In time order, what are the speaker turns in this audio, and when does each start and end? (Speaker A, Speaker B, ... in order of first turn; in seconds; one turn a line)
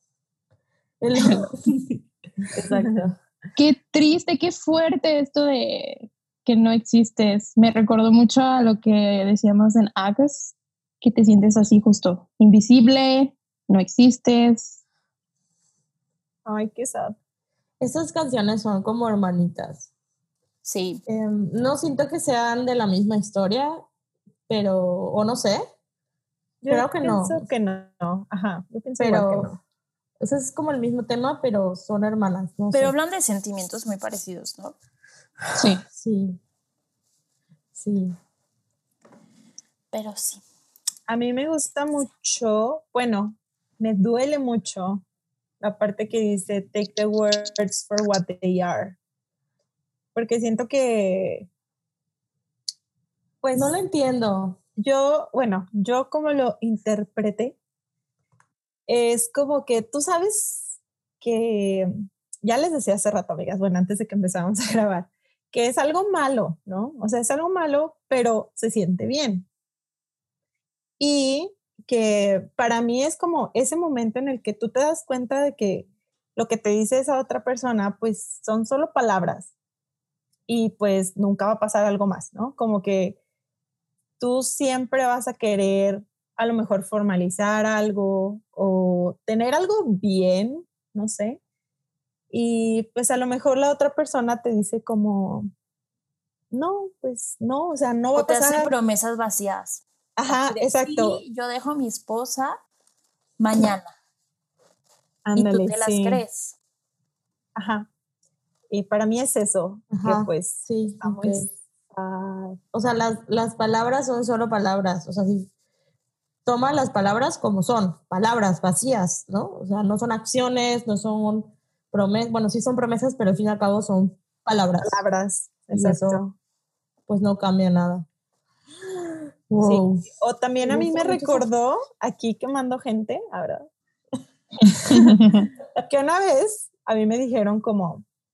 Speaker A: 1.0-3.2
Speaker B: 3.6-14.8
Speaker C: 16.4-17.2
Speaker A: 17.8-19.9
Speaker D: 20.6-21.0
Speaker A: 21.1-23.8
Speaker A: 24.5-25.6
Speaker C: 26.6-29.5
Speaker A: 26.7-27.4
Speaker A: 29.0-29.6
Speaker A: 30.2-32.9
Speaker D: 32.7-34.8
Speaker B: 35.6-35.8
Speaker A: 35.9-36.4
Speaker A: 37.8-38.1
Speaker D: 39.9-40.4
Speaker C: 41.1-45.0
Speaker C: 45.6-49.0
Speaker C: 50.1-51.5
Speaker A: 53.4-54.6
Speaker C: 54.8-57.6
Speaker C: 58.9-61.9
Speaker C: 62.4-69.5
Speaker C: 71.0-79.5
Speaker C: 80.5-83.2
Speaker C: 84.2-91.4
Speaker C: 92.3-95.5
Speaker C: 96.5-98.7
Speaker D: 98.2-102.6
Speaker C: 100.2-101.2
Speaker D: 103.4-103.9
Speaker C: 105.2-106.2
Speaker D: 105.4-106.6
Speaker C: 107.6-107.9
Speaker C: 108.7-112.6
Speaker A: 109.9-111.5
Speaker A: 112.7-115.5
Speaker A: 116.5-125.0
Speaker C: 124.8-126.3
Speaker A: 125.7-126.2
Speaker A: 127.1-128.1
Speaker A: 129.5-130.1
Speaker C: 129.6-133.7
Speaker A: 130.6-131.5
Speaker C: 134.7-135.2
Speaker B: 134.9-135.4
Speaker C: 135.8-138.1